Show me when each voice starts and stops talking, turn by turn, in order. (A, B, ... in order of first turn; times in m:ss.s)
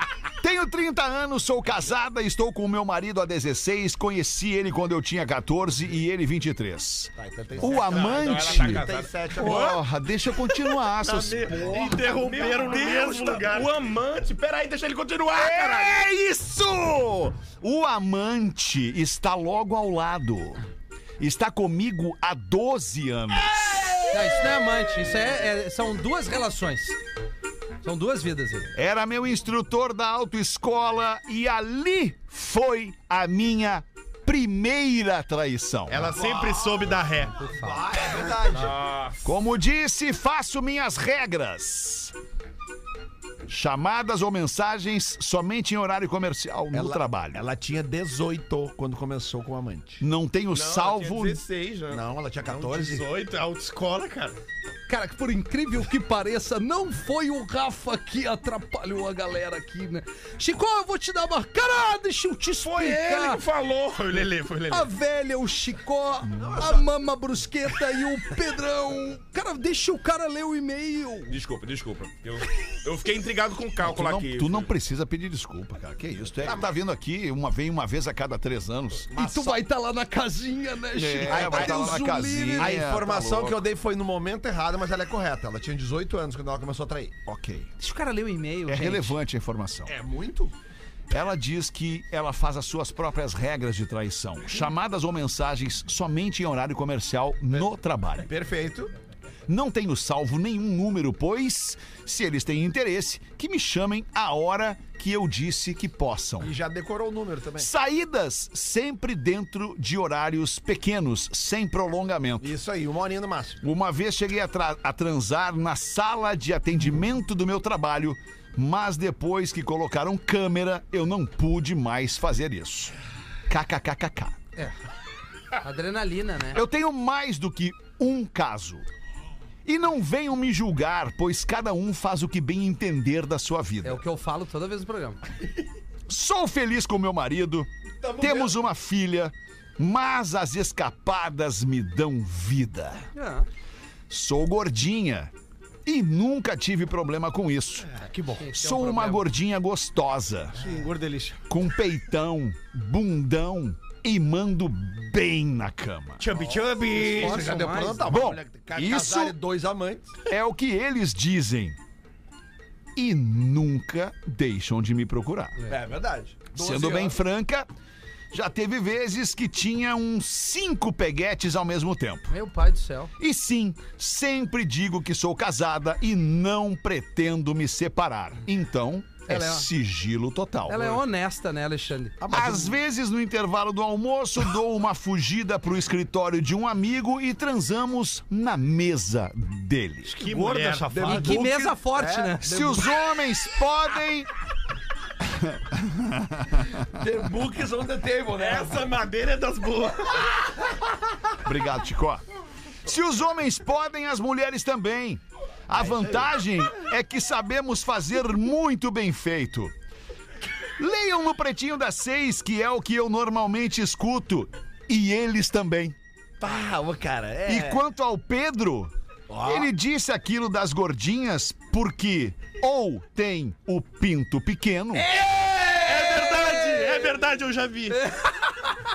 0:00.4-0:11.8 A
0:07.2-0:09.8 B
0:07.6-0:09.8 C
0:11.0-0:13.6 B
0:11.7-0:13.6 D
0:11.8-0:16.0 C
0:15.3-0:20.6 A
0:21.2-0:24.0 A
0:24.1-0:27.0 E
0:27.8-0:28.7 E
0:28.7-0:36.3 A
0:35.9-0:37.3 D
0:36.1-0:38.8 B
0:37.4-0:37.8 E
0:38.2-0:39.3 C
0:39.2-0:42.1 A
0:43.5-0:47.4 A
0:46.7-0:50.0 B
0:50.0-0:51.4 A
0:50.5-0:52.0 C
0:51.9-0:53.1 B
0:52.6-0:54.4 D
0:54.9-1:03.4 E
1:02.6-1:04.9 C
1:04.7-1:11.3 E
1:06.3-1:06.7 A
1:06.4-1:06.8 B
1:11.3-1:14.7 C
1:13.8-1:19.5 A
1:19.1-1:19.5 B
1:19.1-1:22.8 E
1:20.9-1:23.6 A
1:21.2-1:27.2 B
1:27.2-1:27.7 A
1:27.8-1:29.2 E
1:28.7-1:29.9 A
1:29.8-1:30.5 B
1:31.1-1:38.3 A
1:38.2-1:38.9 B
1:39.5-1:46.5 A
1:46.4-1:47.7 B
1:47.6-1:52.5 A
1:52.4-1:53.6 B
1:53.6-2:02.9 A
2:03.5-2:04.4 A
2:05.6-2:06.6 E
2:06.5-2:08.9 A
2:09.6-2:14.0 A
2:13.8-2:15.2 E
2:16.1-2:23.1 A
2:18.0-2:18.5 B
2:23.1-2:23.4 E
2:24.1-2:25.3 A
2:25.8-2:30.7 A
2:28.0-2:28.4 F
2:28.4-2:29.2 E
2:30.6-2:31.4 F
2:31.5-2:36.3 A
2:36.2-2:37.8 F
2:36.3-2:40.1 B
2:37.1-2:38.1 E
2:38.0-2:39.4 A
2:40.2-2:41.8 A
2:43.0-2:45.6 A
2:45.7-2:47.2 B
2:46.5-2:47.7 A
2:48.3-2:52.3 A
2:52.3-2:53.1 E
2:53.2-3:01.0 A
2:59.3-2:59.7 E
3:00.7-3:02.1 E
3:02.2-3:02.8 B
3:02.3-3:10.2 A
3:10.1-3:11.2 D
3:10.2-3:12.8 B
3:10.4-3:11.7 F
3:11.0-3:12.8 E
3:12.4-3:14.3 A
3:15.4-3:16.8 A
3:16.9-3:19.0 B
3:18.4-3:20.2 D
3:21.4-3:22.2 A
3:22.8-3:29.7 A
3:25.7-3:26.3 B
3:30.8-3:36.0 A
3:36.4-3:37.8 B
3:37.4-3:45.1 A
3:39.3-3:39.7 B
3:45.1-3:47.0 E
3:45.8-3:48.1 D